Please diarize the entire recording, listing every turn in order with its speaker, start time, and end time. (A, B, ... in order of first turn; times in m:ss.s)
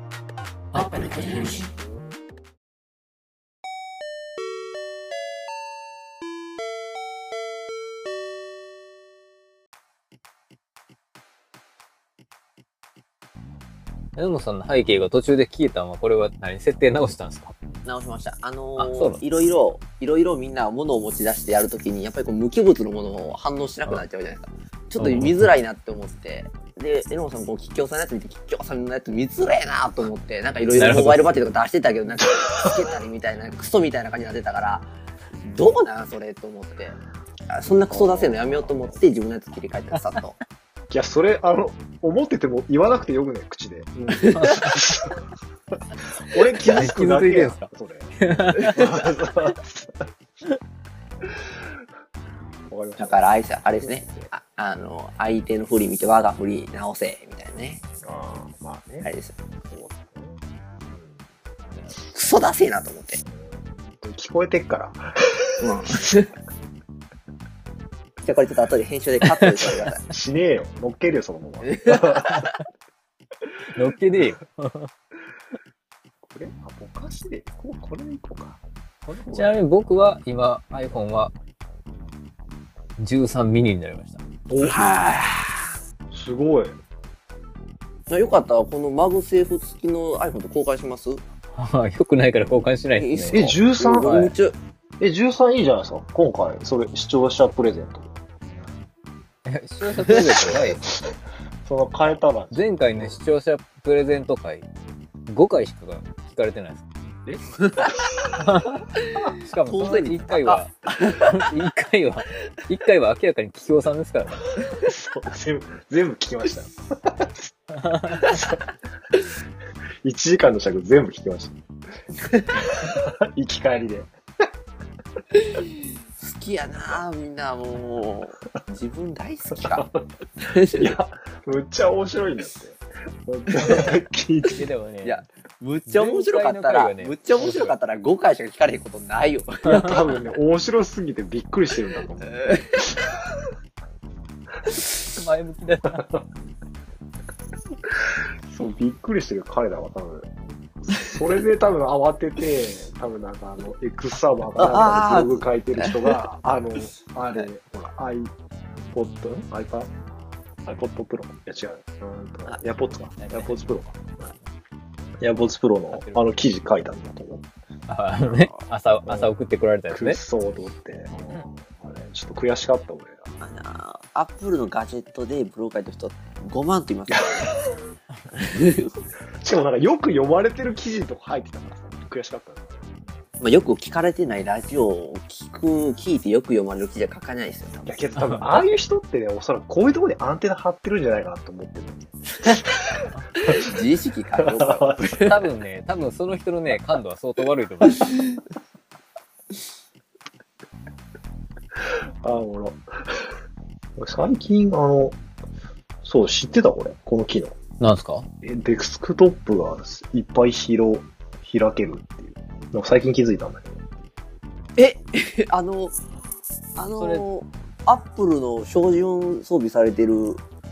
0:00.7-0:01.5 A
0:00.7-0:01.7 B
0:14.2-0:17.6 A
0:17.8-0:34.9 B
0:18.8-0:19.2 A
0:25.0-0:25.5 A
0:30.8-0:31.3 A
0:35.4-0:37.0 B
0:37.5-0:40.4 B
0:37.9-0:39.0 C
0:39.9-0:40.2 A
0:40.9-0:45.2 C
0:44.2-0:44.5 B
0:44.3-0:44.8 A
0:46.3-0:50.0 C
0:46.8-0:49.0 A
0:52.7-0:54.3 C
0:53.0-0:57.8 B
0:58.0-0:59.1 C
0:59.0-0:59.4 B
0:59.7-1:01.2 C
1:01.6-1:02.0 A
1:02.1-1:03.2 B
1:03.2-1:06.0 C
1:05.6-1:06.3 B
1:08.2-1:10.1 B
1:09.3-1:09.7 A
1:10.1-1:12.4 C
1:11.6-1:12.6 B
1:13.7-1:14.9 A
1:16.3-1:19.6 C
1:19.3-1:21.3 A
1:23.0-1:24.2 A
1:24.5-1:24.8 C
1:24.6-1:25.7 B
1:26.1-1:26.8 C
1:28.1-1:31.2 B
1:31.5-1:34.3 A
1:32.9-1:34.6 B
1:33.3-1:34.3 C
1:35.0-1:38.2 C
1:39.5-1:40.8 A
1:40.1-1:40.4 B
1:40.4-1:41.1 C
1:41.6-1:43.2 C
1:42.5-1:44.7 A
1:45.3-1:46.8 A
1:47.3-1:48.0 C
1:47.6-1:47.9 B
1:48.4-1:48.8 A
1:49.1-1:51.3 B
1:49.4-1:54.5 A
1:54.8-1:57.5 C
1:57.8-1:58.1 A
1:58.1-1:58.6 C
1:58.2-1:58.5 B
2:00.0-2:01.6 C
2:02.2-2:02.6 B
2:02.7-2:04.1 C
2:05.3-2:09.8 B
2:09.5-2:10.2 C
2:10.4-2:11.0 B
2:10.7-2:14.6 C
2:13.6-2:13.9 B
2:14.6-2:15.3 A
2:15.0-2:20.2 B
2:15.9-2:17.8 A
2:19.6-2:19.9 A
2:19.7-2:22.8 C
2:22.2-2:23.0 B
2:24.9-2:26.1 A
2:28.5-2:30.3 C
2:30.8-2:38.3 C
2:34.6-2:36.2 B
2:38.9-2:39.9 C
2:40.7-2:44.2 C
2:43.2-2:43.7 A
2:45.2-2:47.4 C
2:45.9-2:46.2 A
2:47.9-2:50.2 A
2:48.2-2:48.6 B
2:49.1-2:49.3 C
2:49.9-2:53.3 C
2:51.1-2:51.4 A
2:53.4-2:57.6 B
2:57.1-2:57.6 C
2:58.4-2:58.9 B
2:59.4-3:03.0 C
3:03.4-3:08.0 B
3:07.9-3:12.1 C
3:08.2-3:08.8 A
3:13.1-3:13.4 A
3:13.4-3:15.4 B
3:14.4-3:15.3 C
3:15.1-3:18.2 A
3:22.2-3:22.8 C
3:24.0-3:25.2 C
3:26.0-3:27.6 C
3:27.8-3:28.3 A
3:28.4-3:33.8 C
3:34.8-3:36.0 B
3:36.8-3:40.4 B
3:37.0-3:37.2 A